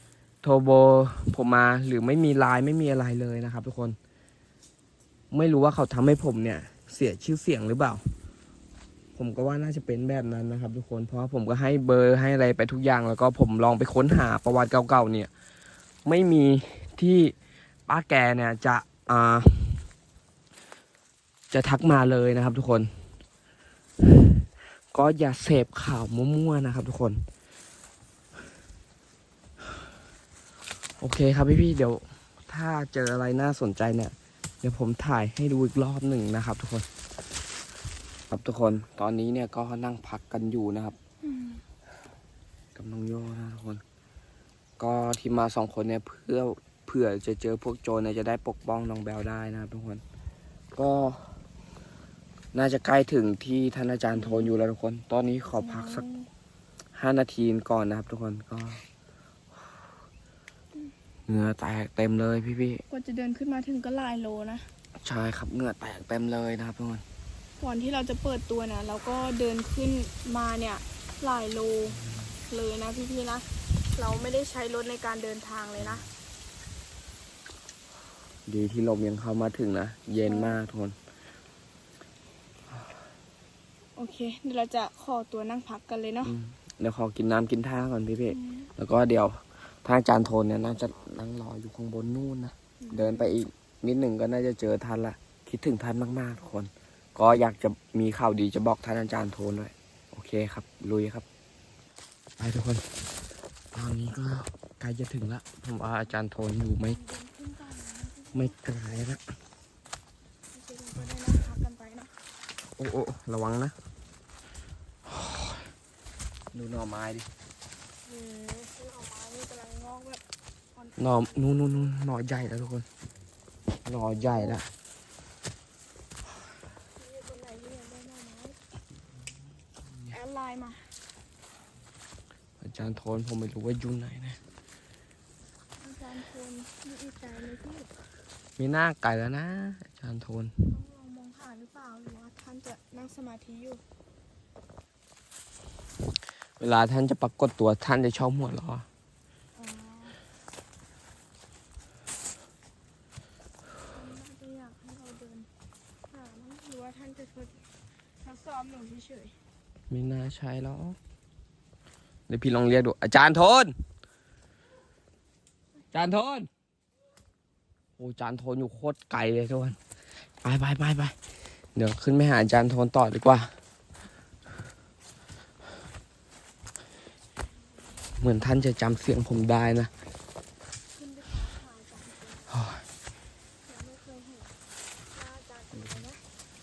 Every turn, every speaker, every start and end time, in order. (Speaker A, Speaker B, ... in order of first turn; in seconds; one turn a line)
Speaker A: 0.4-4.0
Speaker A: 5.3-8.1
Speaker A: 9.2-15.3
Speaker A: 16.1-17.4
Speaker A: 17.9-19.9
Speaker A: 21.5-22.9
Speaker A: 24.3-27.2
Speaker A: 31.0-36.9
Speaker A: 38.3-41.0
Speaker B: 41.2-41.6
Speaker A: 42.8-43.8
Speaker A: 44.8-50.0
Speaker A: 50.7-51.3
Speaker A: 52.5-56.0
Speaker B: 54.1-54.5
Speaker B: 55.5-56.3
Speaker A: 57.0-58.8
Speaker A: 61.3-62.8
Speaker B: 62.9-64.7
Speaker A: 65.0-67.0
Speaker B: 67.6-76.0
Speaker A: 71.9-72.4
Speaker A: 75.8-76.0
Speaker A: 78.5-81.0
Speaker B: 80.3-80.6
Speaker B: 84.0-86.3
Speaker A: 86.2-101.2
Speaker B: 88.3-88.7
Speaker B: 92.8-93.3
Speaker A: 102.4-102.9
Speaker A: 103.7-107.0
Speaker B: 106.8-108.5
Speaker A: 108.3-109.2
Speaker B: 110.5-112.1
Speaker A: 112.8-113.8
Speaker A: 116.5-117.3
Speaker B: 118.1-120.2
Speaker B: 120.8-121.9
Speaker A: 121.0-122.9
Speaker A: 123.8-124.7
Speaker B: 126.9-128.6
Speaker A: 129.8-130.2
Speaker B: 130.1-130.9
Speaker A: 132.6-134.4
Speaker B: 135.8-137.9
Speaker A: 138.6-140.8
Speaker B: 140.7-143.8
Speaker A: 146.6-148.9
Speaker B: 149.6-150.2
Speaker B: 153.9-155.5
Speaker B: 156.1-157.7
Speaker B: 158.2-159.4
Speaker A: 159.9-161.0
Speaker A: 162.3-163.8
Speaker A: 165.9-166.5
Speaker A: 168.0-169.8
Speaker A: 170.4-171.2
Speaker A: 171.8-173.5
Speaker A: 178.2-179.9
Speaker B: 180.9-182.5
Speaker A: 182.5-182.8
Speaker B: 183.7-186.2